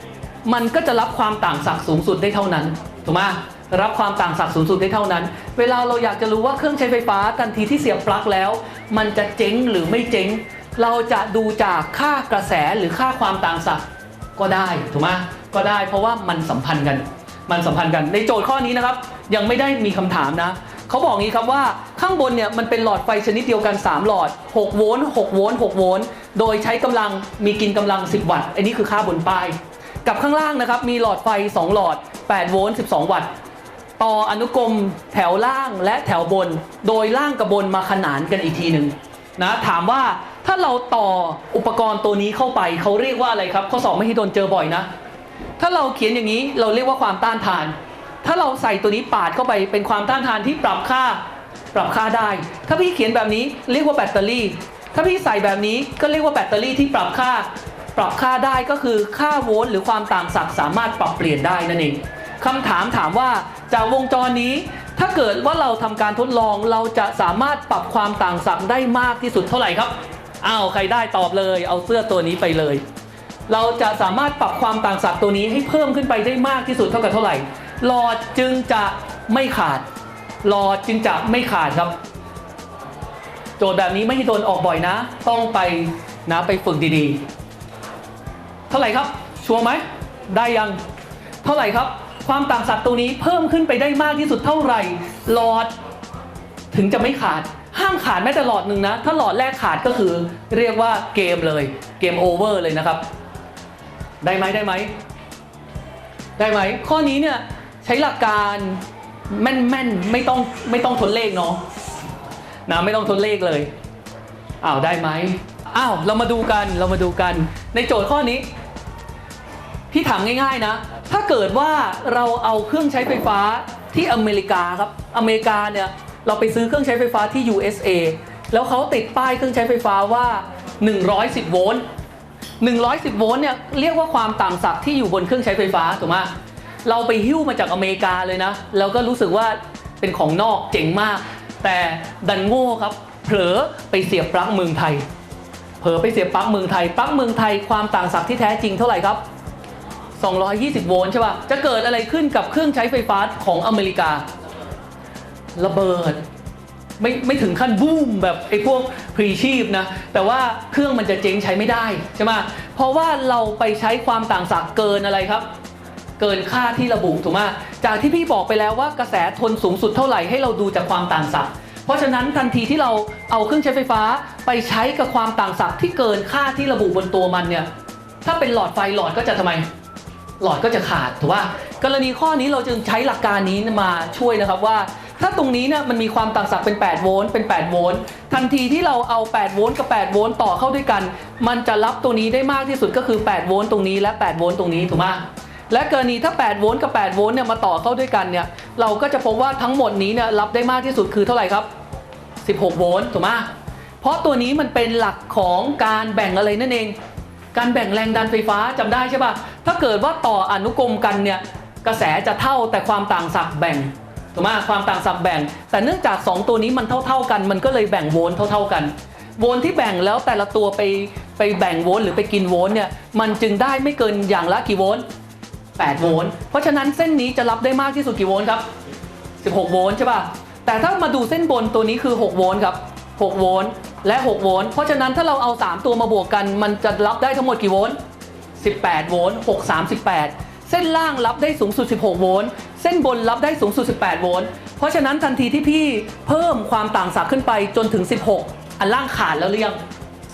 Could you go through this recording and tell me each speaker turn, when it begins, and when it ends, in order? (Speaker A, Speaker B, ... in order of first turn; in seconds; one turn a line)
Speaker A: 0.5-13.8
Speaker A: 14.4-33.3
Speaker A: 34.0-44.9
Speaker A: 45.6-51.2
Speaker A: 51.7-72.8
Speaker A: 73.5-79.8
Speaker A: 80.4-82.0
Speaker A: 83.6-87.2
Speaker A: 88.7-90.8
Speaker A: 91.4-95.7
Speaker A: 96.7-103.0
Speaker A: 104.2-104.9
Speaker A: 106.4-111.6
Speaker A: 112.7-113.7
Speaker A: 114.6-118.5
Speaker A: 119.9-131.8
Speaker A: 132.6-136.3
Speaker A: 136.8-145.0
Speaker A: 145.8-149.2
Speaker A: 150.2-154.2
Speaker A: 155.6-156.2
Speaker A: 157.0-165.4
Speaker A: 166.2-177.7
Speaker A: 178.2-179.7
Speaker A: 180.4-201.7
Speaker A: 202.4-203.5
Speaker A: 204.0-206.9
Speaker A: 207.5-225.0
Speaker A: 225.8-228.6
Speaker A: 229.4-238.0
Speaker A: 238.6-249.8